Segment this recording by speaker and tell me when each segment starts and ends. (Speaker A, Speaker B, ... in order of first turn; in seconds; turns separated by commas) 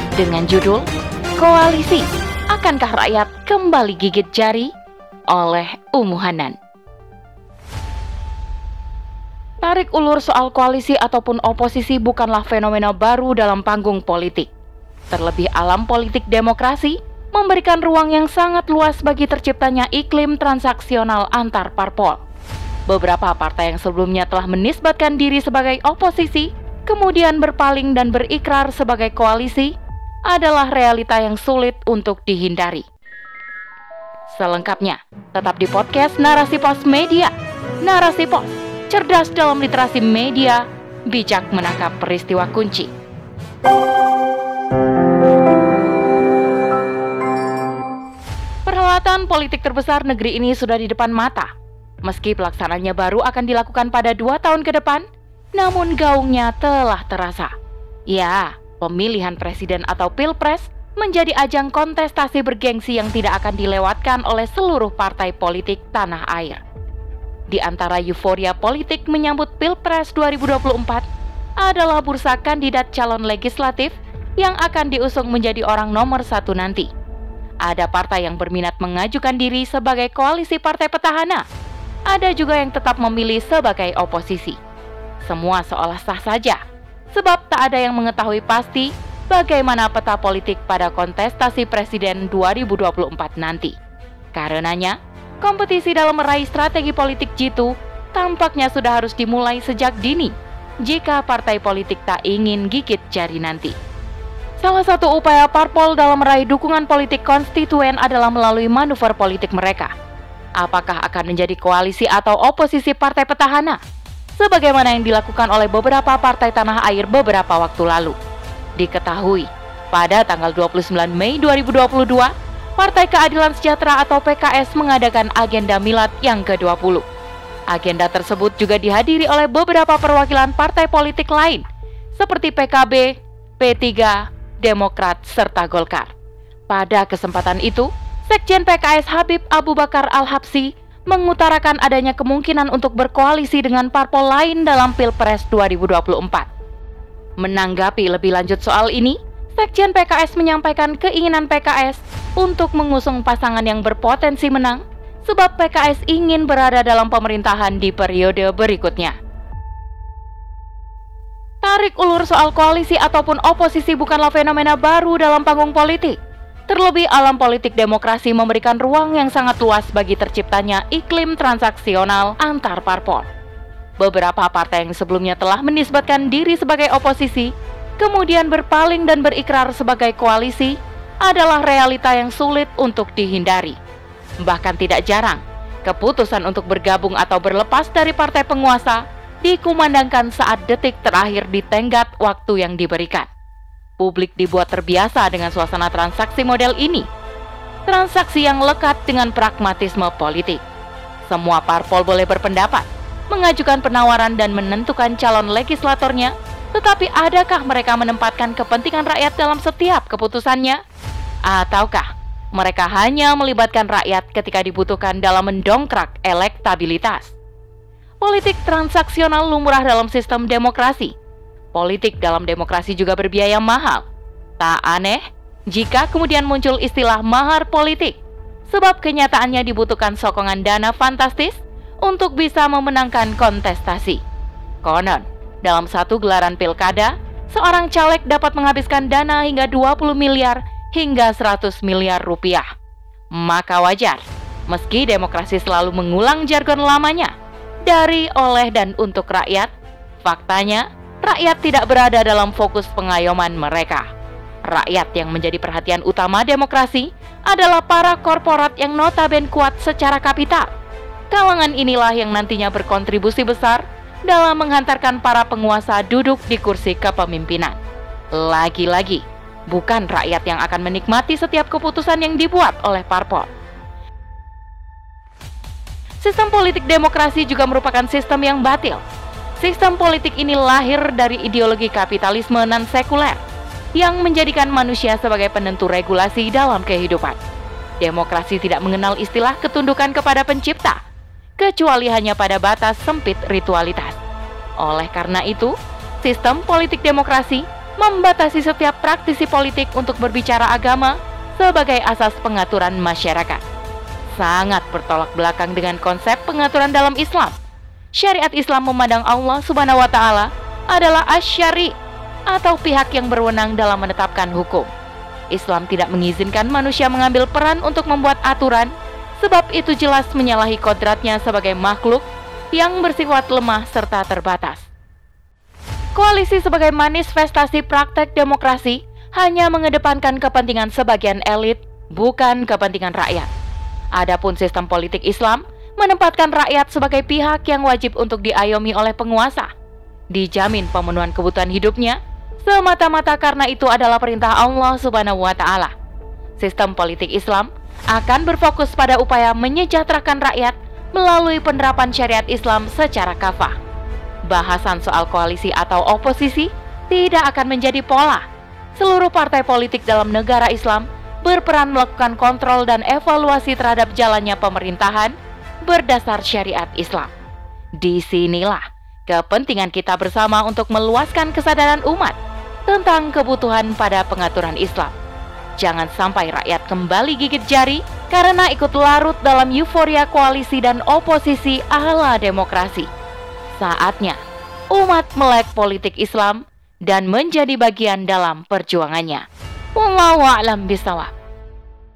Speaker A: 0.2-0.8, Speaker A: 1.4-4.7, Speaker A: 5.3-6.6, Speaker A: 9.6-14.5, Speaker A: 15.1-22.2, Speaker A: 22.9-29.7, Speaker A: 30.3-32.8, Speaker A: 34.3-42.9, Speaker A: 48.7-51.5, Speaker A: 52.0-55.0, Speaker A: 55.6-57.5, Speaker A: 58.1-66.6, Speaker A: 67.5-71.0, Speaker A: 71.6-76.9, Speaker A: 77.7-81.4, Speaker A: 82.1-84.6, Speaker A: 85.2-86.6, Speaker A: 87.1-93.8, Speaker A: 94.3-103.8, Speaker A: 104.6-109.9, Speaker A: 110.6-113.8, Speaker A: 114.4-118.2, Speaker A: 118.8-127.0, Speaker A: 127.7-131.6, Speaker A: 132.2-136.1, Speaker A: 136.7-146.5, Speaker A: 147.4-159.2, Speaker A: 161.6-166.2, Speaker A: 166.7-173.3, Speaker A: 174.0-183.8, Speaker A: 184.4-193.3, Speaker A: 194.0-197.1, Speaker A: 197.9-200.6, Speaker A: 201.3-210.8, Speaker A: 211.5-217.4, Speaker A: 218.2-221.1, Speaker A: 221.7-224.0, Speaker A: 224.6-234.2, Speaker A: 234.8-242.7, Speaker A: 243.3-247.3, Speaker A: 247.9-249.7, Speaker A: 250.2-254.1, Speaker A: 254.7-260.7, Speaker A: 261.3-267.8, Speaker A: 268.4-273.5, Speaker A: 276.2-279.0, Speaker A: 279.6-283.4, Speaker A: 284.0-287.4, Speaker A: 288.0-291.0, Speaker A: 291.6-294.2, Speaker A: 294.8-303.6, Speaker A: 304.3-307.6, Speaker A: 308.2-311.9, Speaker A: 312.5-314.9, Speaker A: 315.5-324.9, Speaker A: 326.2-333.5, Speaker A: 334.2-339.7, Speaker A: 340.3-345.9, Speaker A: 346.6-353.8, Speaker A: 354.5-358.4, Speaker A: 359.0-365.3, Speaker A: 365.9-367.3, Speaker A: 368.0-375.1, Speaker A: 375.8-383.1, Speaker A: 383.7-384.4, Speaker A: 384.9-389.4, Speaker A: 390.0-391.3